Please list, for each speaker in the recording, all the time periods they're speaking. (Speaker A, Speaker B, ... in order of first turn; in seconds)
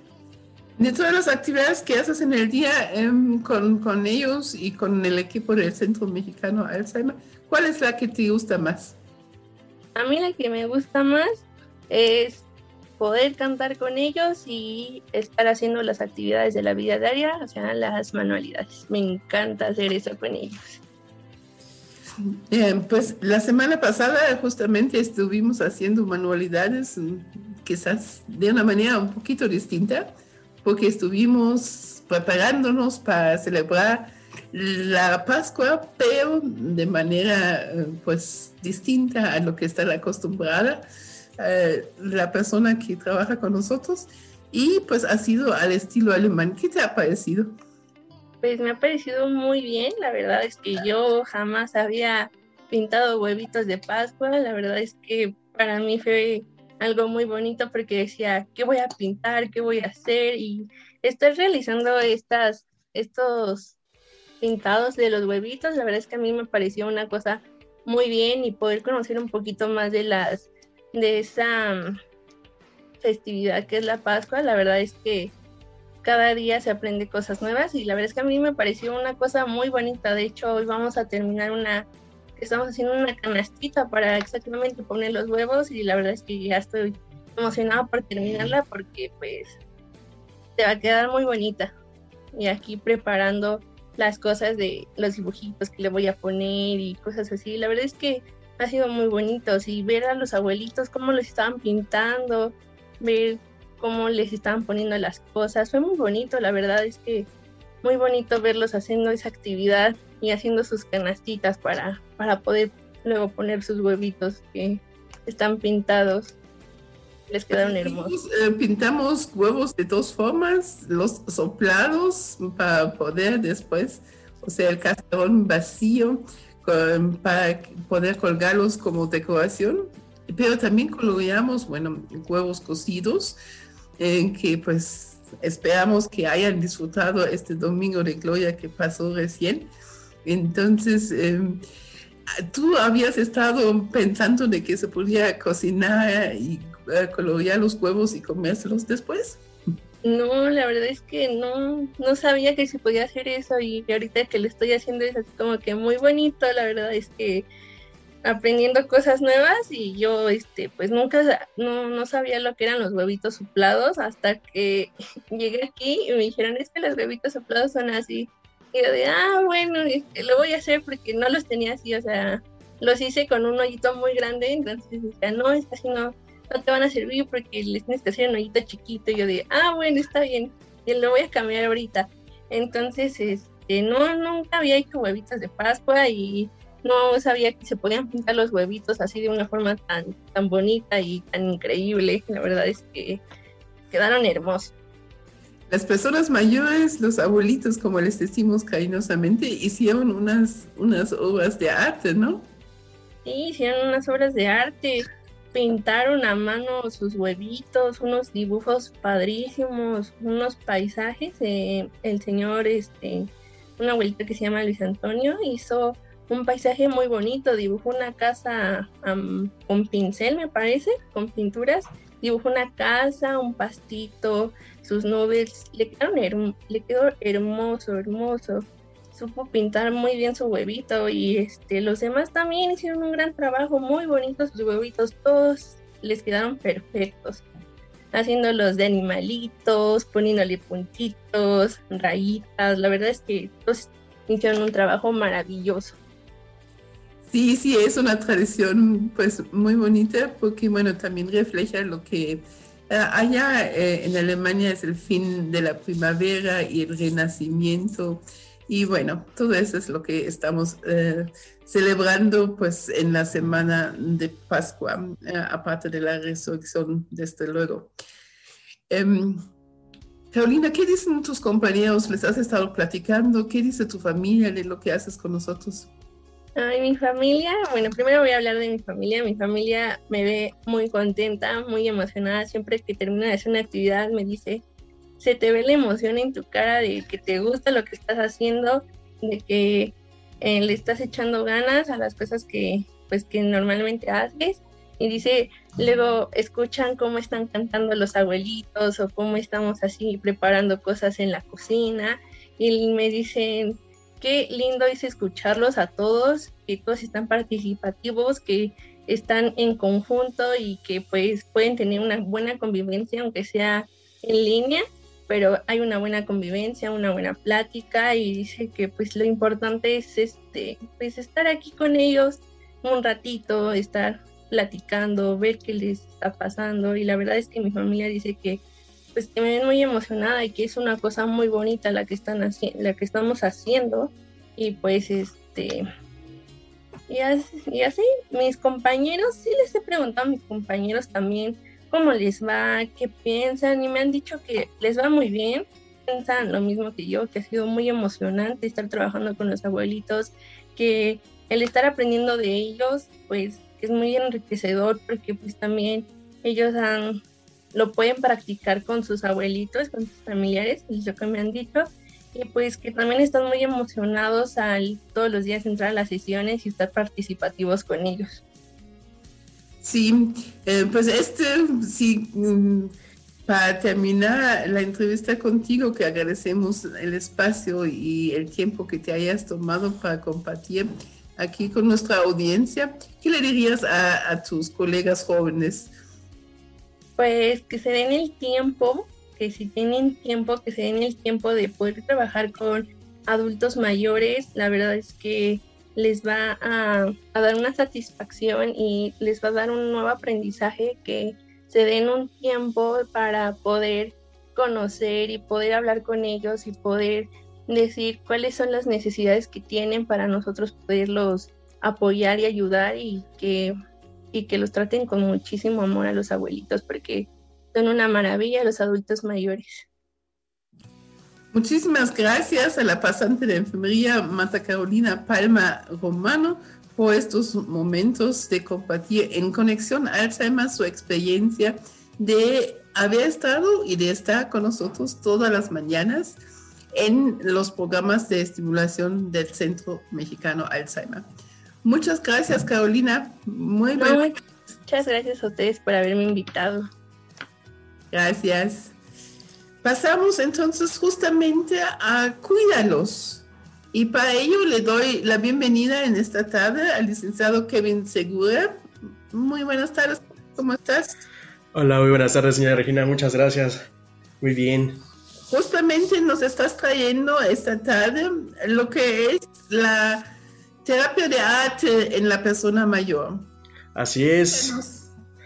Speaker A: 0.8-8.9, 22.2-40.8, 41.4-47.5, 117.5-133.4, 134.0-139.7, 140.2-141.6, 142.4-149.4, 195.7-202.5, 247.3-267.9, 268.9-269.4, 270.3-275.9, 369.8-372.9, 373.5-385.9, 421.5-436.4, 436.9-441.3, 441.8-444.3, 448.1-448.9, 449.8-458.8, 459.3-461.2, 465.5-470.3, 470.8-473.5, 474.5-475.1
Speaker B: 9.9-12.4, 13.0-20.8, 48.4-63.7, 64.4-72.0, 73.0-75.3, 76.0-89.6, 90.5-91.7, 92.3-107.3, 107.8-116.3, 117.3-118.1, 150.0-157.4, 158.2-193.2, 193.9-194.7, 203.2-237.4, 238.1-246.0, 276.6-284.6, 285.2-328.6, 329.1-335.9, 337.1-357.2, 357.7-368.4, 387.2-413.8, 414.3-419.9, 444.0-444.4, 444.9-446.9
Speaker C: 461.7-463.9, 464.4-465.0, 473.9-474.8